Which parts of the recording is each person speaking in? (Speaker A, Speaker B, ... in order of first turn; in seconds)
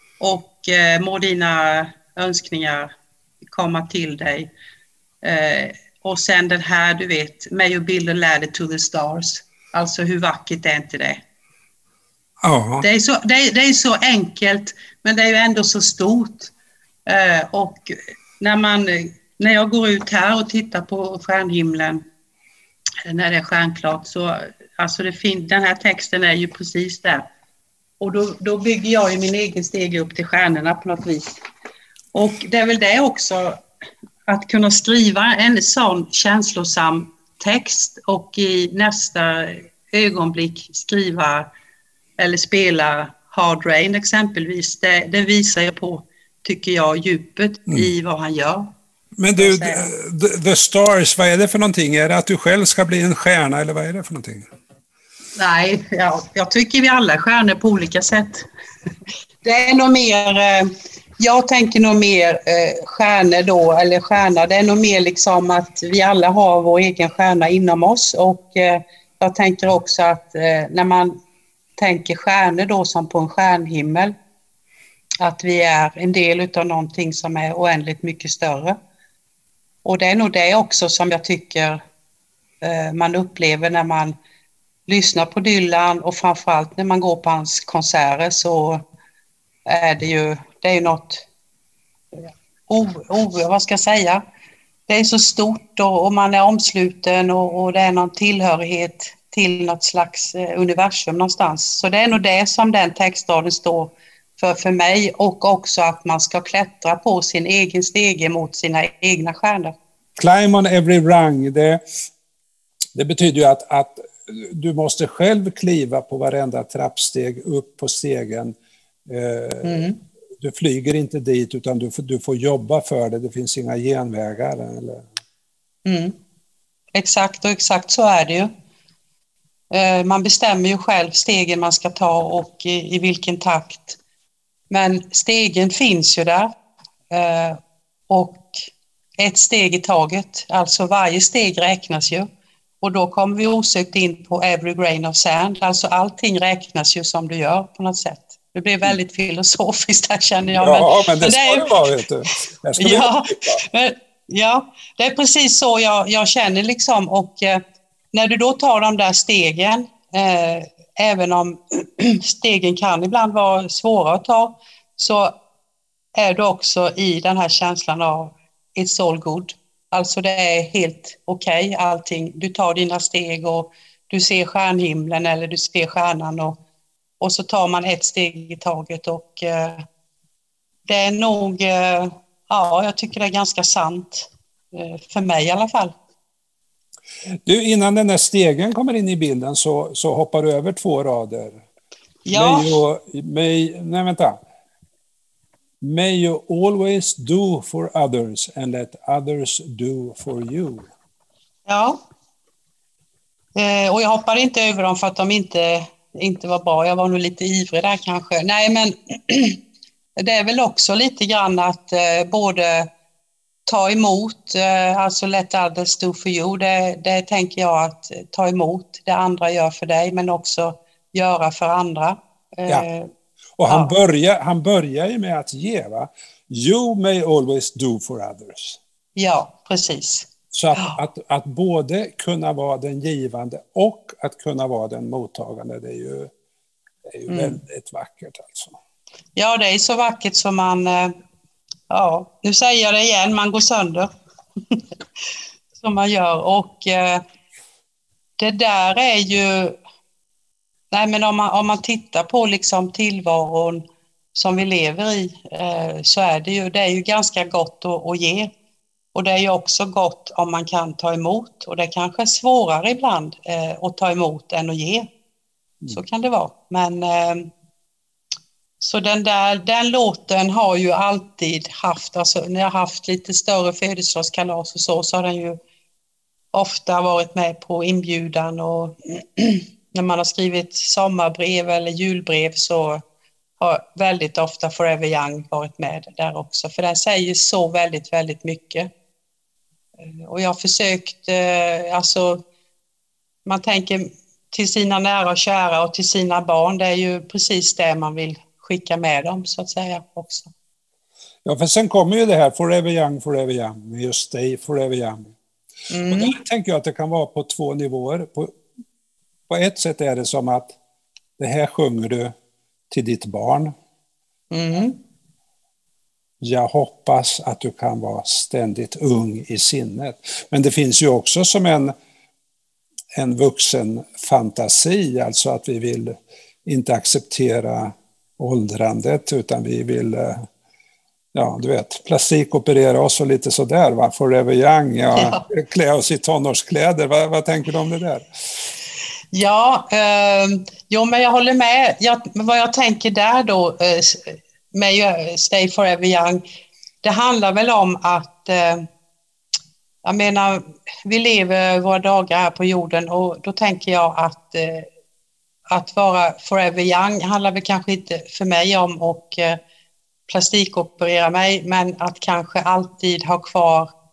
Speaker A: 0.2-2.9, 3.5-4.5, 5.2-11.2, 12.8-16.5, 17.1-22.0, 23.1-27.3, 28.0-31.3, 32.1-33.6, 34.3-41.5, 42.2-48.7, 49.4-49.9, 55.4-58.5, 59.4-71.2, 71.8-74.1, 75.2-78.8, 79.8-81.8, 82.6-84.2, 84.9-88.8, 89.7-91.2, 92.2-94.2, 94.9-109.7, 119.6-120.0, 125.8-126.2, 126.9-128.5, 129.7-134.0, 134.7-136.5, 137.1-138.6, 139.2-142.3, 142.8-152.0, 152.8-165.3, 166.2-176.6, 177.2-179.8, 180.9-185.9, 192.3-192.8, 201.7-202.0, 203.6-209.6, 210.2-212.9, 213.7-223.1, 223.7-223.9, 229.2-231.0, 237.3-237.6, 239.4-241.2, 241.9-244.1, 245.8-247.2, 248.4-249.8, 250.9-253.8, 254.4-258.5, 259.1-265.1, 265.9-267.5, 268.8-275.6, 276.5-283.0, 283.6-288.9, 290.3-292.4, 293.5-300.5, 305.9-306.4, 314.5-315.0, 335.1-335.4, 339.3-346.4, 347.0-348.9, 350.0-354.9, 355.7-359.6, 360.3-363.9
Speaker B: 12.4-12.9, 49.2-54.5, 110.2-111.8, 113.0-118.5, 119.1-119.7, 120.4-125.1, 150.6-153.6, 187.5-191.6, 192.3-194.4, 195.8-200.9, 223.6-228.8, 230.5-236.3, 237.1-238.8, 301.4-305.3, 306.1-308.5, 309.5-310.8, 311.4-312.3, 312.9-313.7, 316.4-321.9, 323.1-330.4, 331.3-338.3